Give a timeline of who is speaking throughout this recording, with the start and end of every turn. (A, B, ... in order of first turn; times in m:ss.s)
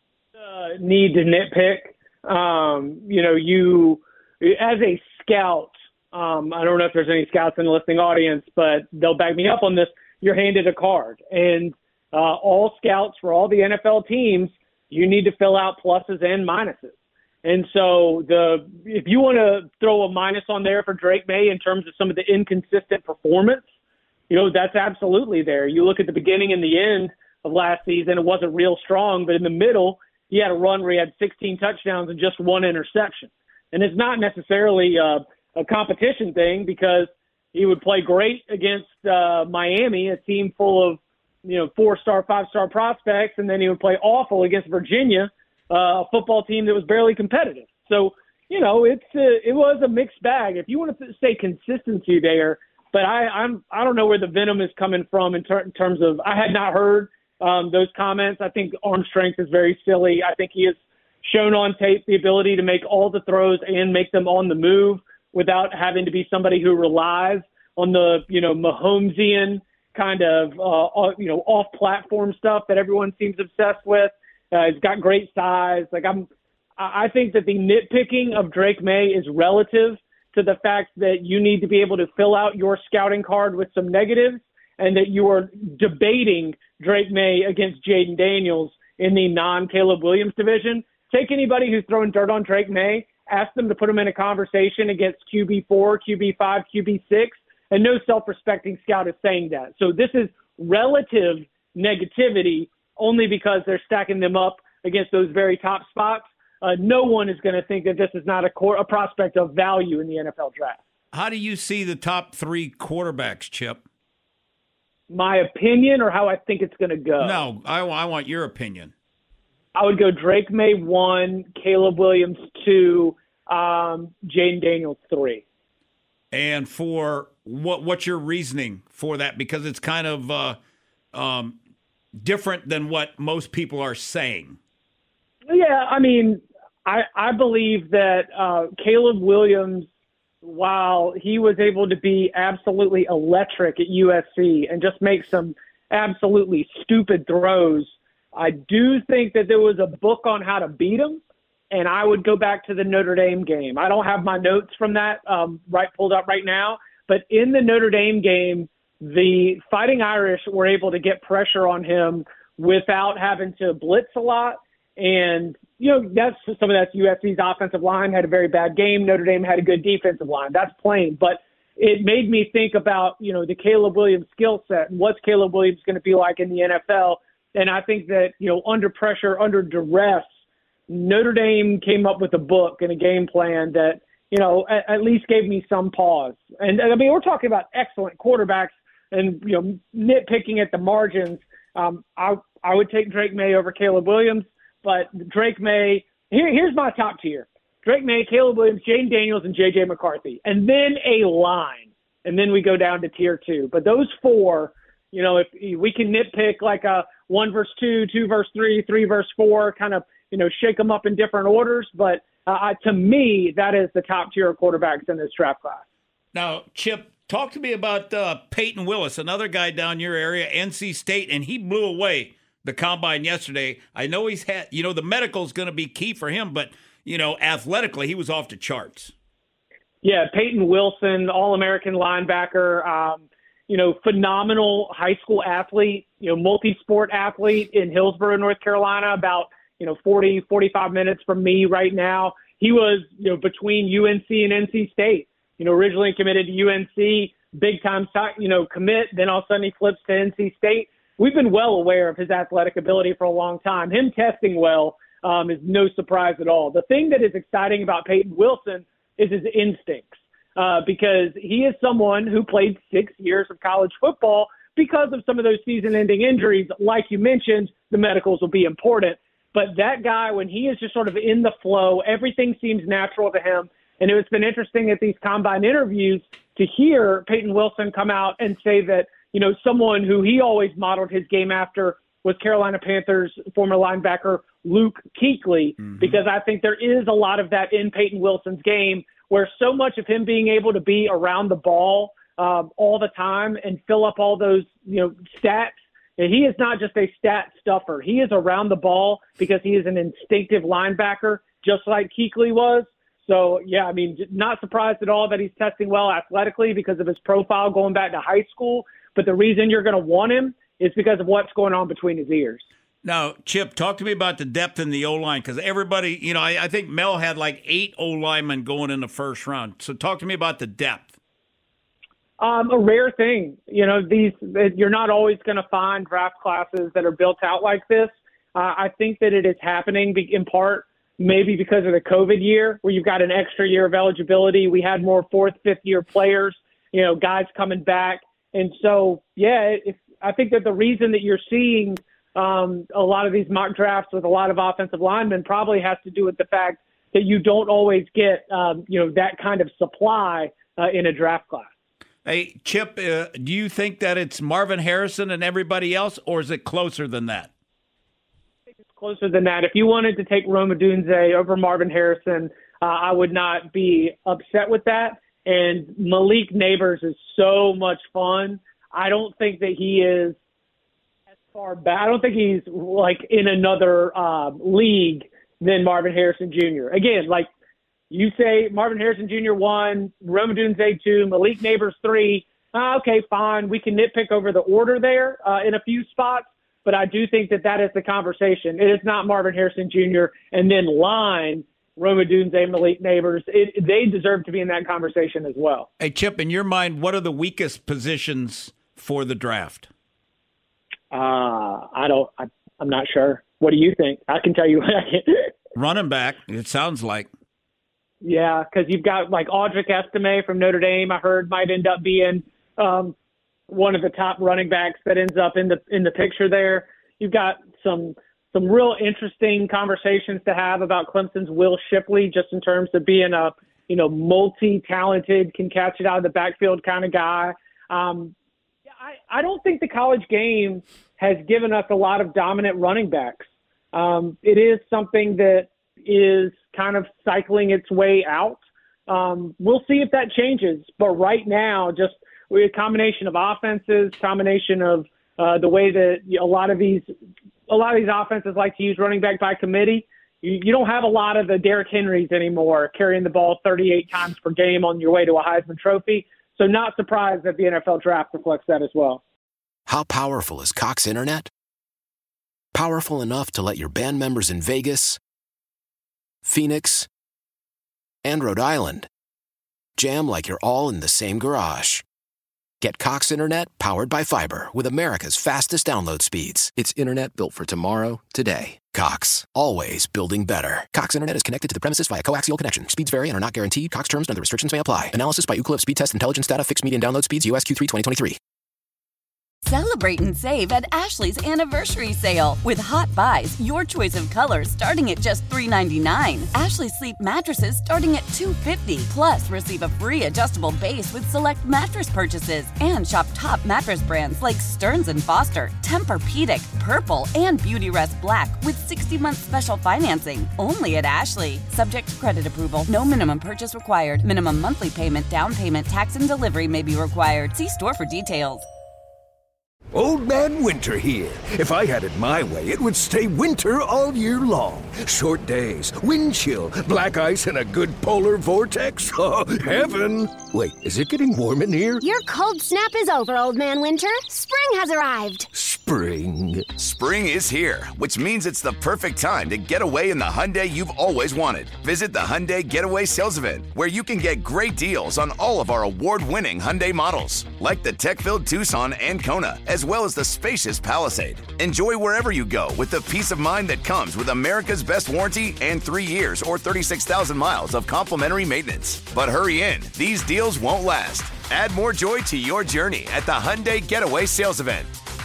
0:00.4-0:23.6 A
0:24.3-1:16.3 A
1:16.8-1:50.8 A
1:51.1-1:53.8 B
1:55.1-1:57.4 A
1:57.2-1:58.9 B
1:59.7-2:05.4 A
2:06.3-2:10.6 B
2:11.1-2:11.6 B
2:12.2-2:14.6 B
2:15.5-2:19.9 A
2:20.4-3:00.3 A
3:00.9-3:35.8 A
3:36.3-3:49.1 B
3:50.0-5:12.6 A
5:13.0-5:21.1 B
5:22.4-5:51.7 A
5:52.2-5:57.5 B
5:58.7-6:10.4 A
6:11.5-6:17.5 A
6:18.1-6:35.9 A
6:36.0-6:39.9 B
6:41.1-6:45.5 A
6:45.8-6:47.3 B
6:48.2-6:53.1 A
6:53.7-7:08.3 A
7:09.0-7:27.1 A
7:27.7-7:39.2 A
7:39.8-7:41.5 C
7:42.7-7:45.2 C
7:46.4-7:47.1 C
7:48.2-7:49.1 C
7:50.0-7:52.0 C
7:52.8-8:08.4 C
8:09.6-8:38.6 D
8:39.9-8:52.1 E
8:52.0-8:55.5 F
8:55.5-8:56.8 E
8:57.2-9:24.9 G